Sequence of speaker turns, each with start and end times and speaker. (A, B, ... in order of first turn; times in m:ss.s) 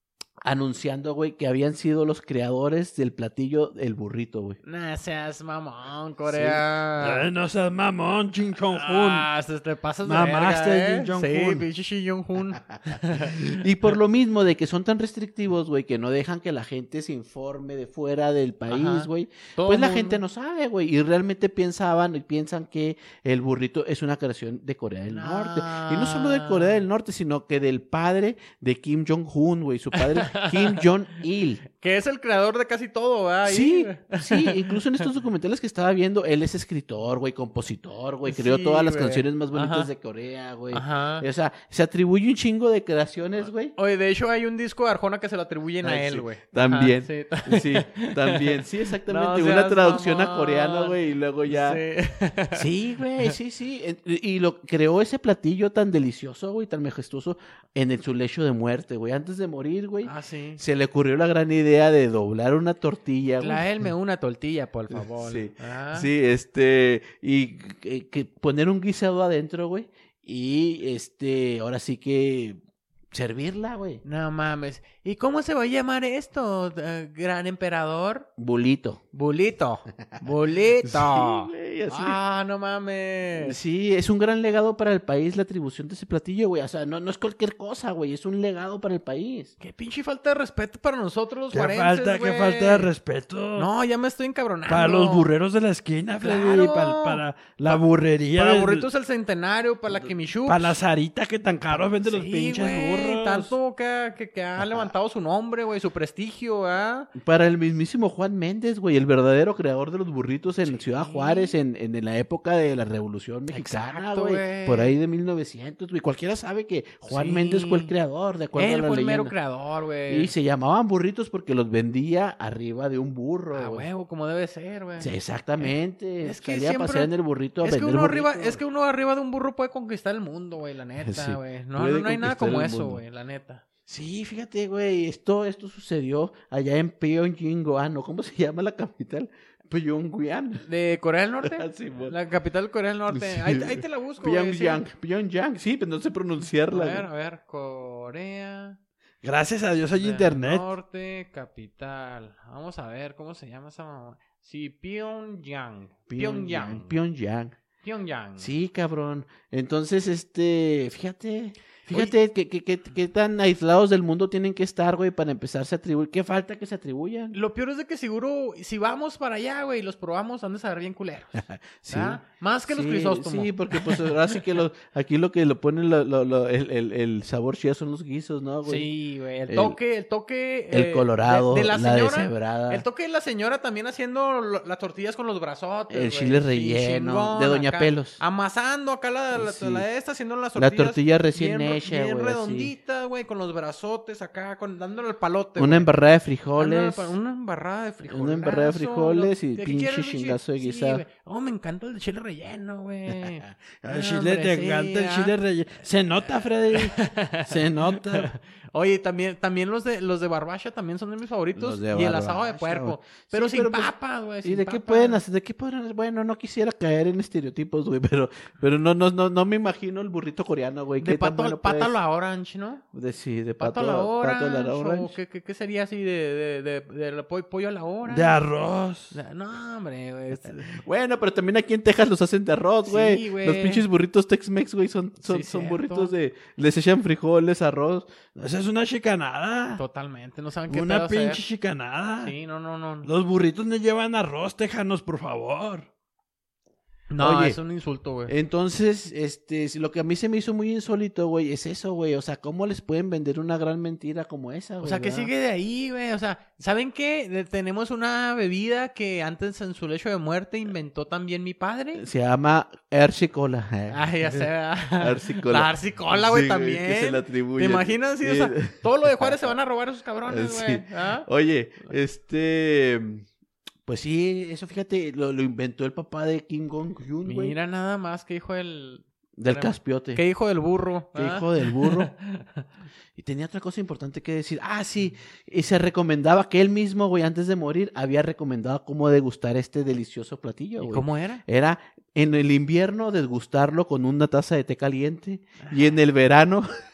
0:00.4-0:04.6 A
0:04.6-0:07.2 B
0:06.3-0:06.6 A
0:07.0-0:09.3 C
0:08.7-0:13.6 B
0:10.0-0:11.7 C
0:13.1-0:31.6 A
0:18.7-0:20.2 B
0:25.1-0:26.8 B
0:29.9-0:30.9 B
0:31.6-0:35.0 B
0:33.4-0:43.7 A
0:38.2-0:39.9 B
0:40.7-0:41.2 B
0:43.7-0:52.7 B
0:45.8-0:51.8 A
0:52.5-1:03.7 A
1:00.0-1:00.6 B
1:03.4-1:06.1 B
1:04.9-1:12.6 A
1:13.1-1:14.0 A
1:14.0-1:18.3 B
1:18.4-1:19.0 A
1:19.1-1:23.6 B
1:20.8-1:22.2 A
1:23.4-1:29.5 A
1:29.6-1:32.9 B
1:31.5-1:33.7 C
1:33.5-1:35.3 B
1:34.7-1:38.9 C
1:36.2-1:37.8 B
1:38.3-1:40.8 B
1:40.4-1:43.5 C
1:41.7-1:47.1 B
1:44.6-1:44.9 A
1:47.2-1:59.3 A
1:50.6-1:51.6 B
1:53.5-1:54.9 B
1:57.1-1:57.9 B
1:58.5-2:00.3 B
2:00.1-2:03.9 A
2:03.5-2:07.1 B
2:05.0-2:08.6 A
2:07.6-2:13.6 B
2:11.0-2:13.0 A
2:13.9-2:20.6 A
2:20.6-2:24.8 B
2:21.4-2:22.2 A
2:23.1-2:27.1 A
2:26.7-2:28.8 B
2:29.2-2:30.7 C
2:30.0-2:36.9 B
2:36.1-2:37.6 A
2:37.8-2:38.5 B
2:38.4-2:47.3 A
2:41.8-2:42.1 B
2:47.3-2:54.4 B
2:51.4-2:58.9 A
2:58.6-3:15.9 B
2:59.5-2:59.8 A
3:00.7-3:02.8 A
3:05.9-3:08.2 A
3:09.3-3:09.8 A
3:10.6-3:12.7 A
3:15.6-3:17.1 A
3:16.6-3:25.3 B
3:18.0-3:21.0 A
3:23.8-3:26.9 C
3:26.7-3:35.2 B
3:27.5-3:28.3 C
3:27.6-3:27.9 A
3:31.5-3:41.9 A
3:41.0-3:42.8 B
3:42.9-3:45.2 A
3:43.6-3:48.4 B
3:48.1-3:49.1 C
3:49.1-3:50.8 B
3:50.5-3:58.2 A
3:52.8-3:53.8 B
3:55.2-3:56.1 B
3:58.4-3:59.8 C
3:59.8-4:01.4 B
4:00.7-4:02.3 C
4:02.2-4:03.1 B
4:03.0-4:05.9 C
4:07.1-4:08.3 B
4:07.2-4:07.6 A
4:08.3-4:15.3 A
4:14.8-4:22.0 B
4:22.0-4:29.5 A
4:23.9-4:31.3 B
4:30.2-4:33.3 A
4:33.8-4:37.5 A
4:37.2-4:42.6 B
4:39.4-4:40.2 A
4:41.1-4:42.1 A
4:43.2-4:56.7 A
4:50.8-4:51.4 B
4:55.6-4:55.9 B